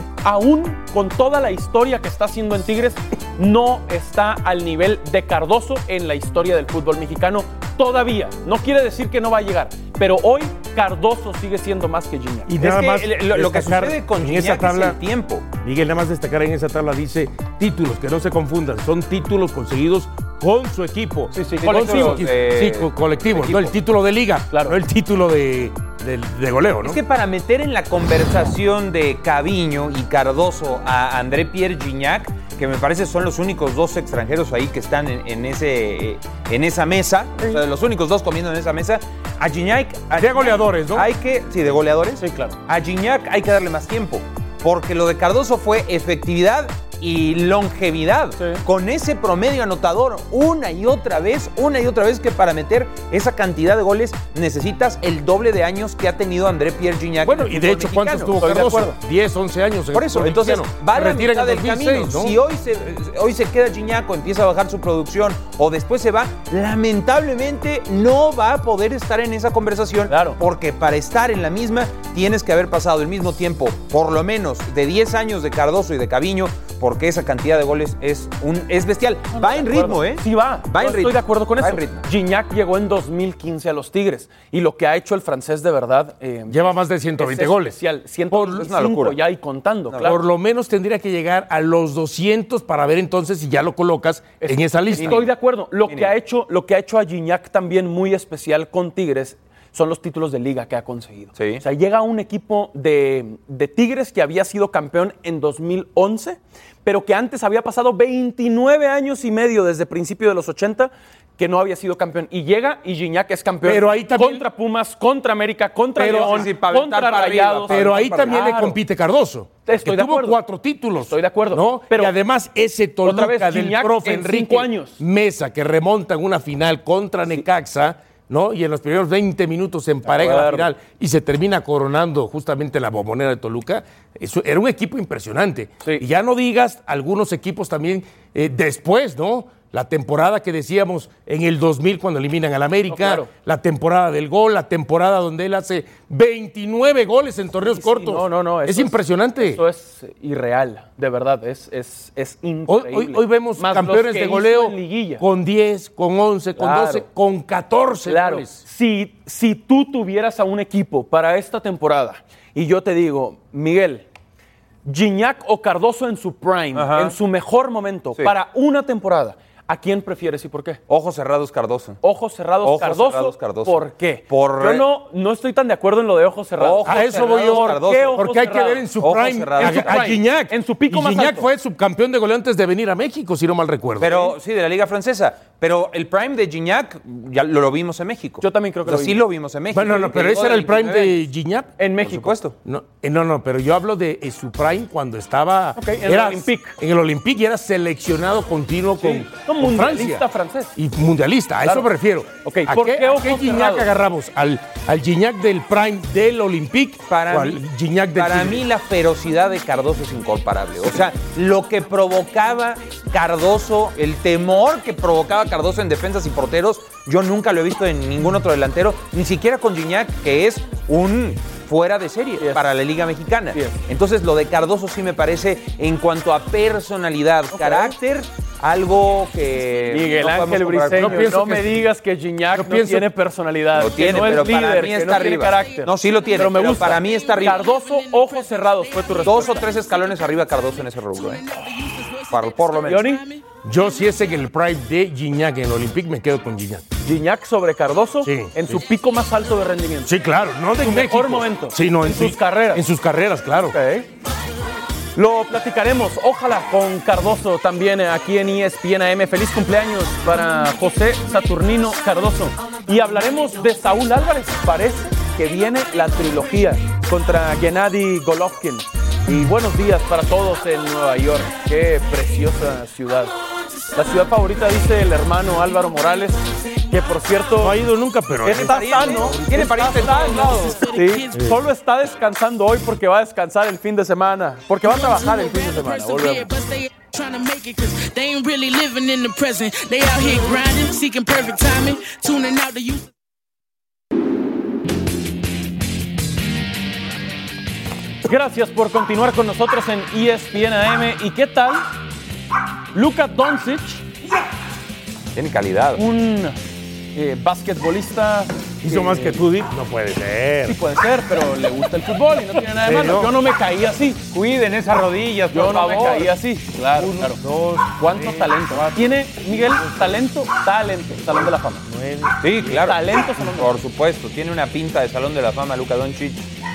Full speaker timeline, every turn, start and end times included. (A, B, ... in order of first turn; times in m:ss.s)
0:00.2-0:12.6 A
0:12.5-0:15.0 B
0:12.6-0:15.4 C
0:15.5-0:27.0 B
0:21.3-0:22.2 A
0:21.6-0:23.7 C
0:24.5-0:24.8 A
0:26.8-0:58.4 C
0:40.2-0:41.1 B
0:42.2-0:42.6 A
0:48.4-0:48.6 A
0:57.2-1:02.4 B
0:58.4-0:59.0 A
0:59.9-1:22.0 C
1:10.1-1:10.4 A
1:19.3-1:30.2 A
1:26.5-1:27.8 B
1:28.3-1:28.6 B
1:28.3-1:29.2 C
1:30.0-1:35.3 B
1:34.4-1:58.8 A
1:35.0-1:35.2 C
1:41.4-1:41.6 C
1:53.6-1:54.5 B
1:56.0-1:56.4 B
1:56.0-1:58.4 C
1:57.7-2:29.6 B
1:59.6-2:00.4 A
2:01.0-2:02.1 A
2:03.0-2:05.0 A
2:10.0-2:10.7 A
2:22.9-2:23.3 A
2:27.7-2:35.2 A
2:32.7-2:38.6 B
2:36.6-2:37.0 A
2:38.0-2:44.1 A
2:44.8-2:50.8 A
2:46.7-2:47.1 C
2:50.9-2:52.0 C
2:52.0-2:58.9 A
2:52.6-2:54.9 C
2:56.6-2:58.2 C
2:56.8-3:04.3 B
2:59.0-3:00.1 C
2:59.6-3:01.4 A
3:04.0-3:11.2 C
3:08.4-3:09.2 A
3:09.7-3:11.7 B
3:11.8-3:12.4 A
3:12.0-3:12.6 C
3:12.6-3:28.6 B
3:15.8-3:16.8 A
3:19.0-3:20.7 A
3:22.4-3:23.9 A
3:27.1-3:27.6 C
3:28.1-3:51.3 C
3:42.4-3:42.7 A
3:43.5-3:43.8 A
3:47.5-3:48.0 A
3:49.9-3:59.7 A
3:50.9-3:51.9 B
3:52.5-3:53.1 B
3:53.7-3:57.6 C
3:54.5-4:03.4 D
3:59.2-4:01.4 C
4:02.3-4:03.1 C
4:02.8-4:03.2 A
4:03.6-4:06.8 B
4:07.0-4:10.1 A
4:08.2-4:08.8 B
4:10.0-4:13.8 B
4:10.8-4:12.8 A
4:13.7-4:14.1 A
4:15.1-4:33.3 A
4:33.9-4:37.8 A
4:37.6-4:39.6 B
4:38.4-4:46.5 A
4:38.5-4:40.6 C
4:39.7-4:41.6 D
4:44.8-4:53.1 D
4:58.2-5:01.8 A
5:02.9-5:04.0 A
5:05.3-5:06.0 C
5:06.0-5:06.6 A
5:07.1-5:09.4 A
5:08.8-5:10.8 B
5:10.6-5:14.2 A
5:12.8-5:13.3 B
5:14.3-5:16.3 C
5:15.5-5:17.4 A
5:17.0-5:20.2 B
5:18.0-5:21.8 A
5:21.8-5:22.9 B
5:22.4-5:26.4 C
5:22.7-5:23.7 A